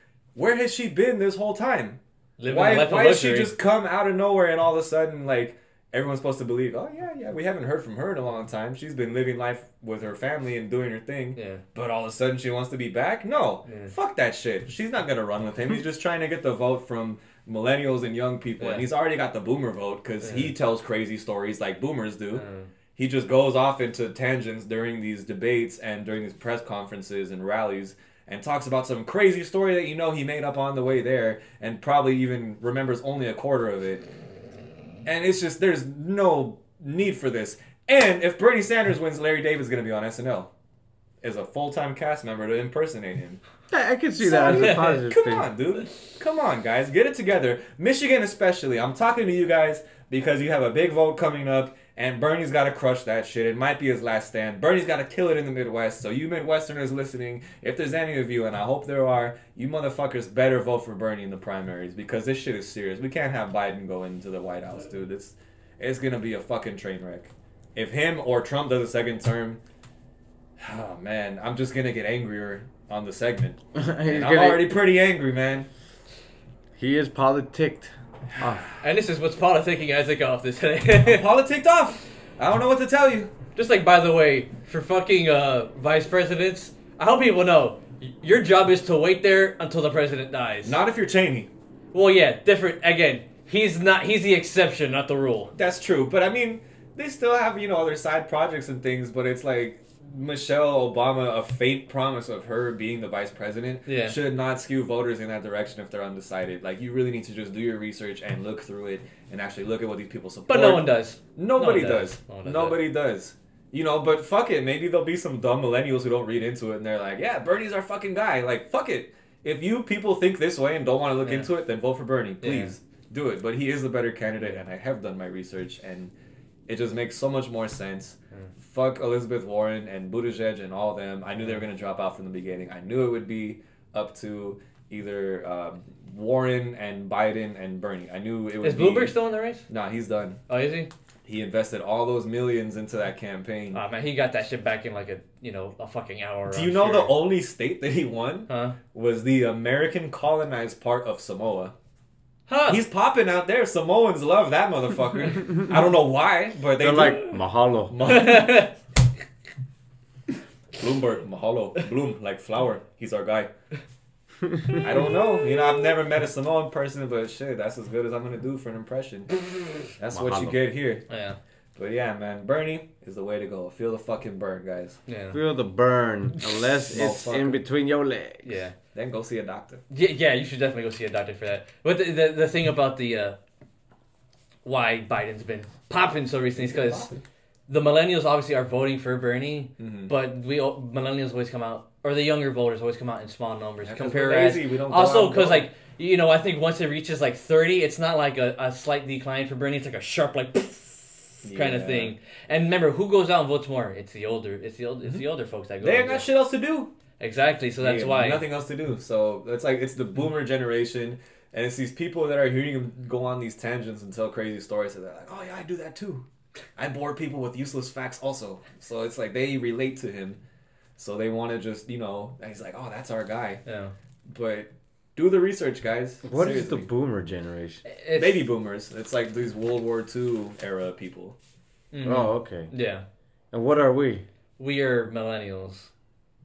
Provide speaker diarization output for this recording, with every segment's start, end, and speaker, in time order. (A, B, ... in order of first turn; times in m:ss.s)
0:00.4-0:22.4 A
0:02.4-0:03.5 B
0:11.4-0:11.6 B
0:13.7-0:13.9 B
0:20.2-0:20.5 B
0:22.3-0:22.7 B
0:23.0-0:34.1 A
0:35.0-0:40.5 A
0:41.2-0:43.4 A
0:43.7-0:45.4 C
0:44.2-1:09.6 A
0:44.5-0:45.0 B
1:10.6-1:15.7 A
1:13.8-1:14.8 C
1:16.8-1:18.7 C
1:18.8-1:21.2 B
1:21.0-1:23.3 A
1:23.6-1:30.8 B
1:30.6-1:31.5 A
1:31.9-1:35.5 B
1:35.6-2:06.1 A
1:43.9-1:44.2 B
1:50.5-1:52.8 B
2:01.2-2:01.5 B
2:02.4-2:02.7 B
2:06.7-2:19.2 A
2:18.6-2:19.7 B
2:19.7-2:20.4 A
2:20.5-2:20.9 B
2:21.2-2:23.8 A
2:23.7-2:27.2 B
2:26.5-2:31.8 A
2:28.5-2:28.8 B
2:32.5-2:32.8 B
2:32.7-2:38.7 A
2:36.8-2:37.9 C
2:38.0-2:38.8 B
2:40.7-2:43.5 A
2:44.8-2:51.1 A
2:50.1-2:50.6 C
2:51.1-2:51.4 B
2:51.8-2:55.0 A
2:55.1-2:55.4 B
2:55.3-2:58.6 C
2:56.8-2:57.6 A
2:58.4-2:58.7 B
2:59.0-2:59.8 A
2:59.9-3:03.4 B
3:04.6-3:07.1 B
3:06.6-3:07.2 A
3:07.7-3:26.3 B
3:09.8-3:10.1 A
3:13.8-3:15.7 A
3:21.4-3:22.1 A
3:25.8-3:26.9 A
3:27.2-3:28.4 B
3:27.8-3:40.4 A
3:41.0-3:43.6 A
3:43.6-3:43.9 B
3:44.3-3:46.9 A
3:46.2-3:47.8 C
3:47.9-3:48.4 B
3:48.2-3:51.4 A
3:51.9-3:53.0 B
3:52.0-3:52.7 C
3:53.5-3:54.2 C
3:54.6-3:55.9 B